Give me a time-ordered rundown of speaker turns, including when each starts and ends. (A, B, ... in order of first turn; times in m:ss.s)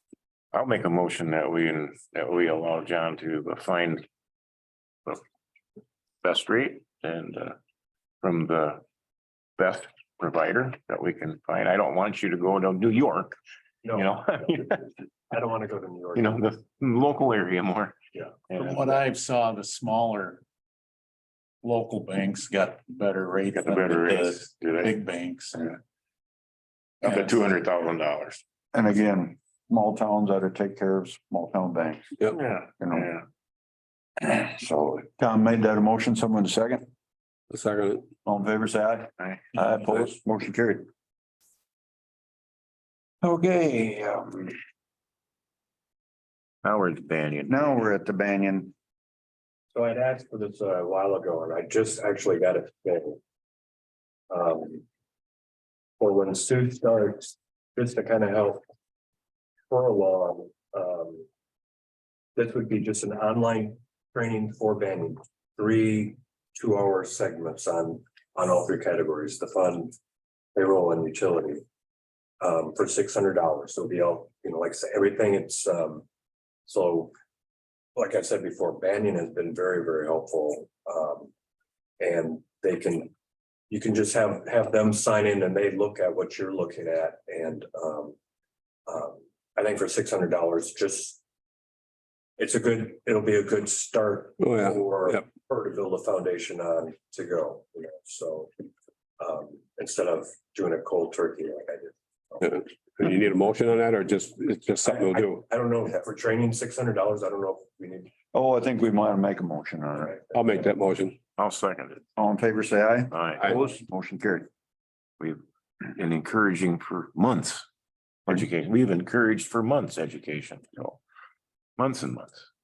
0:00.5-0:04.0 A
0:06.2-0:07.6 A
0:08.2-0:08.8 A
0:09.6-0:13.4 A
0:13.8-0:16.4 B
0:13.9-0:14.8 A
0:16.1-0:18.0 A
0:18.5-0:19.0 A
0:18.5-0:20.4 C
0:21.6-0:25.8 C
0:23.5-0:25.0 A
0:27.0-0:28.4 A
0:27.0-0:27.3 C
0:28.7-0:32.1 D
0:32.3-0:33.2 A
0:32.8-0:33.1 D
0:34.2-0:36.9 D
0:37.5-0:38.1 E
0:38.2-0:40.9 D
0:43.2-0:44.5 D
0:46.6-0:47.9 A
0:47.5-0:48.7 D
0:49.7-0:53.2 B
0:54.3-0:54.8 B
0:56.0-0:58.6 B
0:59.7-1:01.3 B
1:02.4-1:09.9 B
1:10.5-1:11.6 B
1:12.4-1:16.0 B
1:16.6-1:17.1 B
1:18.0-1:21.3 B
1:22.0-1:23.1 B
1:23.7-1:28.2 B
1:28.9-1:31.2 B
1:32.4-1:38.5 B
1:34.4-1:35.2 E
1:39.2-1:42.6 B
1:42.5-1:45.4 E
1:44.8-1:48.1 B
1:48.3-1:50.2 D
1:49.9-1:50.7 B
1:50.3-1:51.2 E
1:51.4-1:52.0 A
1:52.2-1:54.5 D
1:53.1-1:53.5 A
1:55.2-1:57.6 A
1:58.3-2:01.0 A
2:01.8-2:02.5 A